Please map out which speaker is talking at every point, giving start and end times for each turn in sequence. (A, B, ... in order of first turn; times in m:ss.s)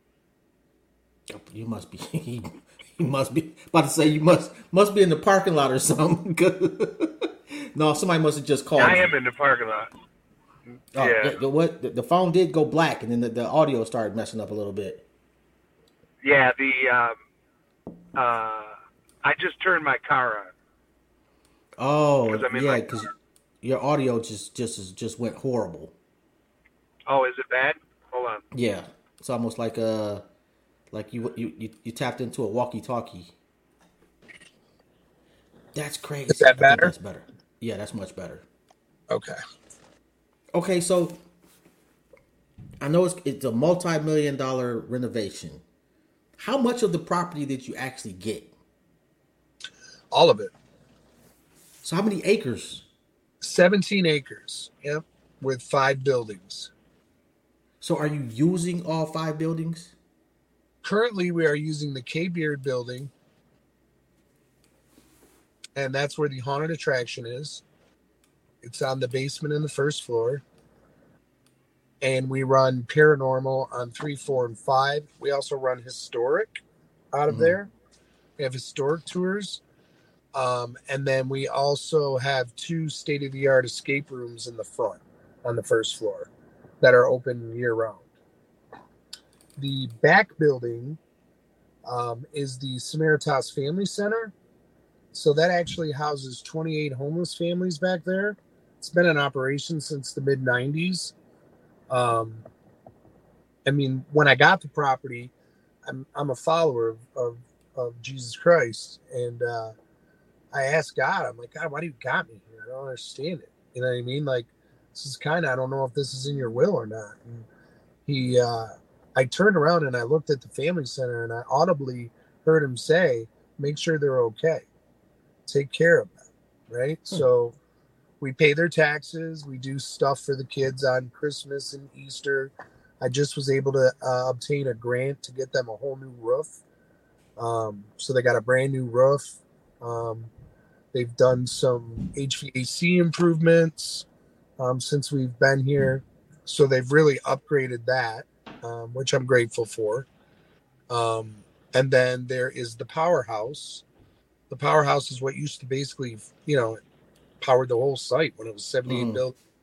0:01.3-0:09.1 A
0:08.8-0:09.9 B
0:10.9-0:15.0 A
0:11.0-0:11.4 B
0:16.2-0:17.2 B
0:18.2-0:20.5 B
0:21.8-0:23.1 A
0:22.3-0:23.1 B
0:23.6-0:25.9 A
0:27.1-0:28.4 B
0:28.5-0:30.2 A
0:30.9-0:33.3 A
0:35.8-0:38.4 A
0:36.3-0:36.9 C
0:39.1-0:39.4 C
0:40.5-0:41.2 A
0:42.8-0:45.6 A
0:46.4-0:48.5 A
0:50.1-0:50.5 C
0:51.8-0:52.8 A
0:53.4-0:56.7 C
0:57.8-0:59.9 A
1:00.8-1:03.1 C
1:05.8-1:07.6 C
1:08.6-1:10.4 C
1:12.0-1:17.7 C
1:17.3-1:17.6 A
1:18.4-1:19.6 C
1:20.3-1:26.3 C
1:26.8-1:28.0 C
1:29.6-1:31.0 C
1:31.8-1:34.3 C
1:35.1-1:41.1 C
1:41.9-1:42.5 C
1:43.7-1:45.3 C
1:45.8-1:49.7 C
1:50.5-1:57.5 C
1:58.1-2:04.7 C
2:05.5-2:06.2 C
2:06.7-2:07.6 C
2:08.2-2:16.6 C
2:17.4-2:20.3 C
2:20.9-2:24.1 C
2:24.6-2:30.1 C
2:30.9-2:33.8 C
2:34.5-2:36.8 C
2:37.4-2:39.4 C
2:38.9-2:39.2 A